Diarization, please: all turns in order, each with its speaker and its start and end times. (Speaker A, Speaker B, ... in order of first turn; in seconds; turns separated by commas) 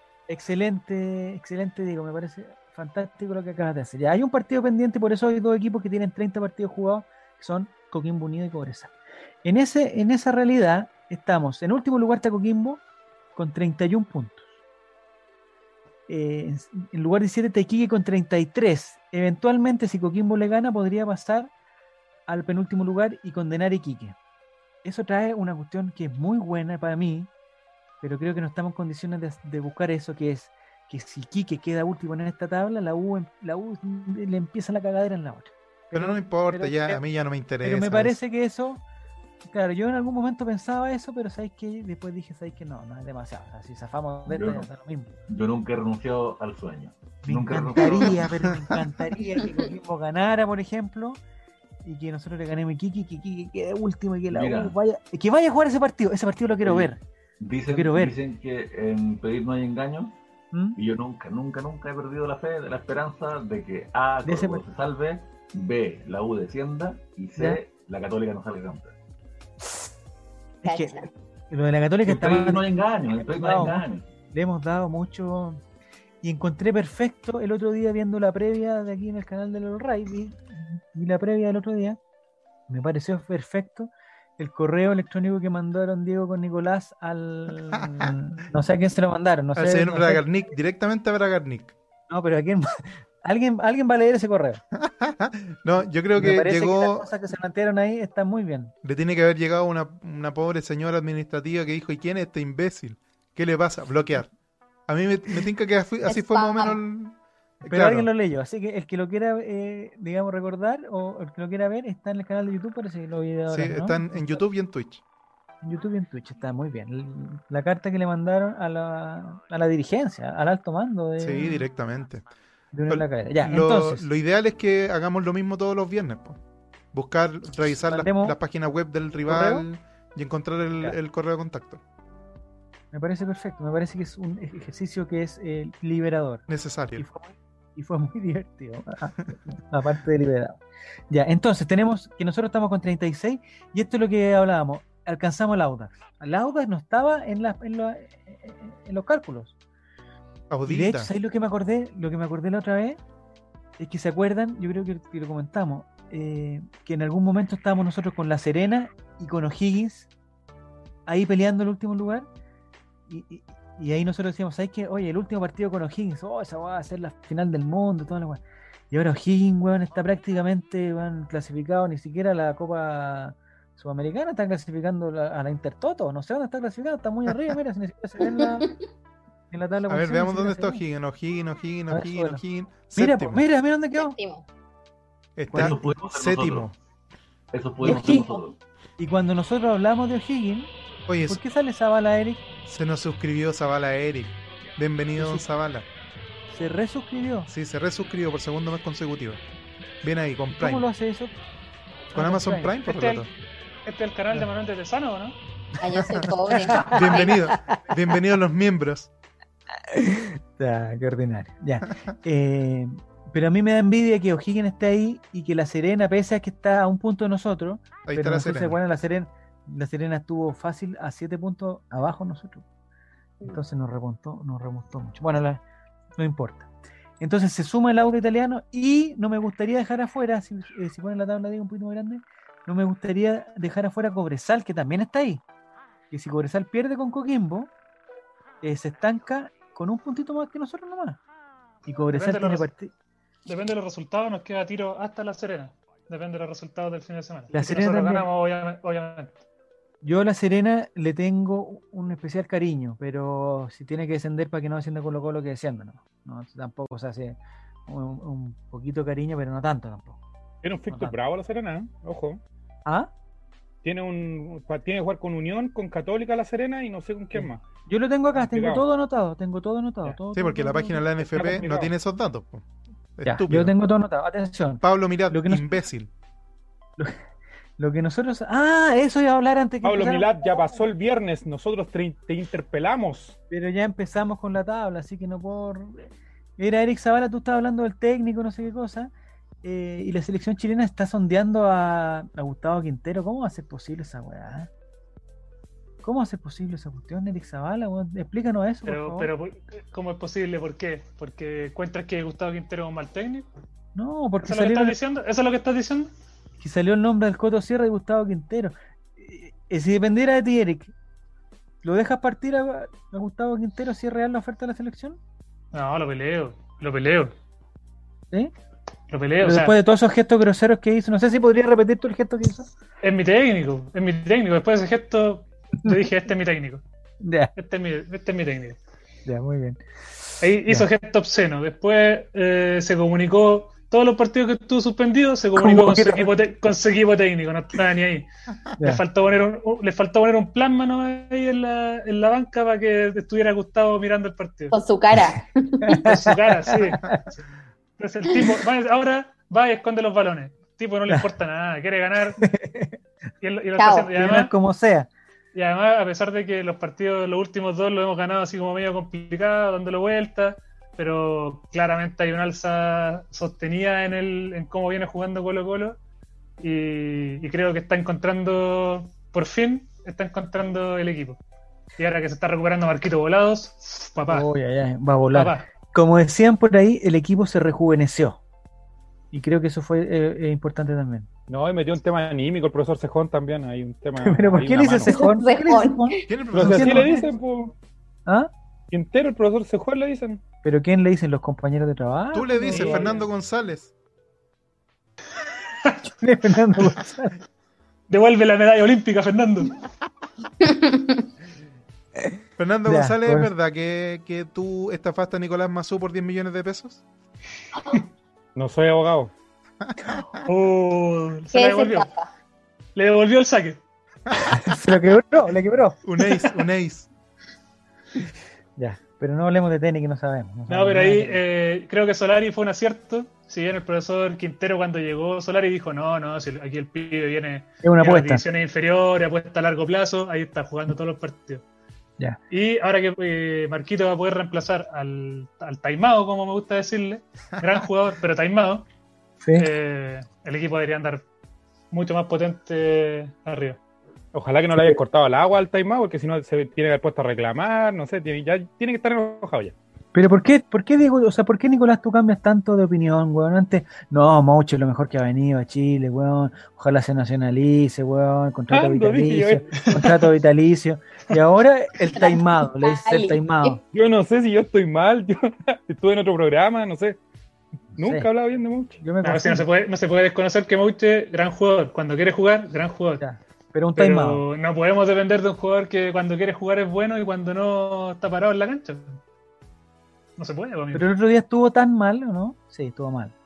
Speaker A: 0.3-8.9, Speaker A: 9.4-12.8, Speaker A: 13.3-14.5, Speaker A: 16.1-21.5, Speaker A: 22.3-24.1, Speaker A: 24.8-27.3, Speaker A: 28.0-37.0, Speaker B: 35.9-38.2, Speaker A: 37.6-38.8, Speaker A: 39.5-45.2, Speaker C: 44.2-44.6, Speaker C: 45.3-48.2, Speaker A: 47.2-51.2, Speaker A: 51.8-57.0, Speaker C: 54.3-54.7, Speaker C: 56.6-60.1, Speaker A: 57.7-58.1, Speaker C: 60.8-68.9, Speaker A: 64.2-64.6, Speaker A: 70.6-73.8, Speaker D: 70.6-71.1, Speaker C: 72.0-74.0, Speaker A: 74.3-75.6, Speaker A: 76.2-82.0, Speaker A: 82.7-90.2, Speaker B: 89.5-91.7, Speaker A: 92.1-94.6, Speaker B: 94.8-97.1, Speaker A: 96.2-98.7, Speaker B: 98.8-104.3, Speaker B: 104.9-108.1, Speaker D: 106.0-106.8, Speaker A: 107.6-114.1, Speaker B: 113.5-115.0, Speaker A: 115.6-121.7, Speaker B: 121.2-122.2, Speaker A: 122.7-124.0, Speaker B: 122.9-126.4, Speaker B: 126.9-131.8, Speaker A: 127.9-128.4, Speaker A: 129.2-129.6, Speaker A: 132.9-136.4, Speaker B: 136.5-137.0, Speaker A: 137.0-140.6, Speaker A: 141.1-149.5, Speaker B: 150.5-151.1, Speaker A: 150.7-153.0, Speaker A: 153.8-160.1, Speaker A: 161.1-162.3, Speaker A: 163.1-178.7, Speaker D: 178.4-178.7, Speaker A: 179.5-180.8, Speaker B: 179.9-183.4, Speaker A: 181.9-184.2, Speaker D: 184.0-184.4, Speaker B: 185.4-186.8, Speaker A: 185.5-185.9, Speaker C: 185.5-186.7, Speaker C: 187.5-188.6, Speaker A: 187.8-188.3, Speaker D: 187.8-188.3, Speaker A: 189.0-190.7, Speaker B: 191.1-191.4, Speaker A: 191.3-192.4, Speaker B: 192.7-195.9, Speaker A: 195.1-195.4, Speaker A: 196.5-197.5, Speaker B: 197.5-199.4, Speaker B: 200.0-200.9, Speaker A: 200.4-201.3, Speaker A: 202.1-202.7, Speaker B: 202.1-203.3, Speaker E: 202.8-203.3, Speaker E: 203.8-205.3, Speaker D: 205.8-207.4, Speaker B: 205.8-209.1, Speaker A: 206.6-207.8, Speaker A: 209.9-222.6, Speaker B: 218.0-218.8, Speaker A: 223.4-225.6, Speaker A: 226.2-226.7, Speaker A: 227.2-235.4, Speaker A: 236.1-237.7, Speaker A: 238.6-241.2, Speaker A: 241.8-242.9, Speaker E: 242.1-242.7, Speaker E: 243.4-249.3, Speaker A: 247.5-248.2, Speaker A: 250.0-260.2, Speaker F: 260.6-262.4, Speaker A: 260.9-261.1, Speaker A: 262.9-263.1, Speaker F: 263.8-267.6, Speaker A: 267.3-271.8, Speaker F: 268.3-268.8, Speaker B: 270.3-272.6, Speaker F: 271.3-271.9, Speaker B: 273.2-273.7, Speaker A: 273.2-275.6, Speaker B: 274.8-276.1, Speaker A: 277.8-280.8, Speaker F: 279.8-283.4, Speaker A: 283.5-289.1, Speaker A: 289.6-294.7, Speaker A: 296.0-299.3, Speaker E: 298.8-303.5, Speaker A: 303.9-304.9, Speaker E: 304.4-306.1, Speaker A: 306.6-310.9, Speaker A: 311.8-315.2, Speaker E: 315.7-317.3, Speaker E: 319.1-319.7, Speaker A: 319.4-322.7, Speaker E: 323.0-326.8, Speaker A: 327.2-327.5, Speaker E: 327.5-328.8, Speaker A: 329.2-330.9, Speaker E: 330.4-344.7, Speaker A: 335.5-336.3, Speaker D: 344.7-346.1, Speaker A: 345.8-347.2, Speaker E: 346.1-347.4, Speaker E: 348.0-352.4, Speaker A: 352.4-353.0, Speaker E: 353.4-354.5, Speaker D: 353.8-354.1, Speaker A: 354.1-355.1, Speaker E: 355.5-365.9, Speaker E: 366.6-371.4, Speaker E: 372.0-374.5, Speaker A: 374.3-378.4, Speaker E: 375.3-375.7, Speaker A: 379.3-381.3, Speaker F: 381.5-385.1, Speaker A: 384.2-387.3, Speaker D: 385.1-386.2, Speaker B: 386.3-387.1, Speaker F: 386.5-387.7, Speaker A: 388.2-388.5, Speaker F: 388.9-390.4, Speaker A: 390.6-393.1, Speaker B: 392.3-393.9, Speaker A: 396.0-397.4, Speaker E: 398.1-399.8, Speaker D: 400.6-401.2, Speaker A: 402.2-403.5, Speaker B: 402.6-407.0, Speaker D: 407.8-408.0, Speaker F: 408.5-409.3, Speaker B: 409.8-410.4, Speaker E: 410.4-412.1, Speaker D: 411.5-412.3, Speaker E: 412.9-413.8, Speaker A: 414.5-416.0, Speaker B: 416.0-417.1, Speaker A: 418.8-421.4, Speaker E: 420.7-431.6, Speaker A: 427.8-428.4, Speaker E: 432.5-438.9, Speaker A: 439.4-439.7, Speaker E: 439.5-441.2, Speaker E: 441.9-443.8, Speaker F: 444.3-449.7, Speaker A: 450.1-463.8, Speaker F: 458.7-460.1, Speaker E: 459.8-460.2, Speaker D: 462.1-463.8, Speaker F: 463.9-467.2, Speaker F: 467.9-469.0, Speaker A: 468.0-468.3, Speaker A: 469.0-469.6, Speaker E: 469.2-473.2, Speaker A: 473.2-474.4, Speaker E: 473.9-479.2, Speaker E: 480.4-481.1, Speaker A: 480.9-483.3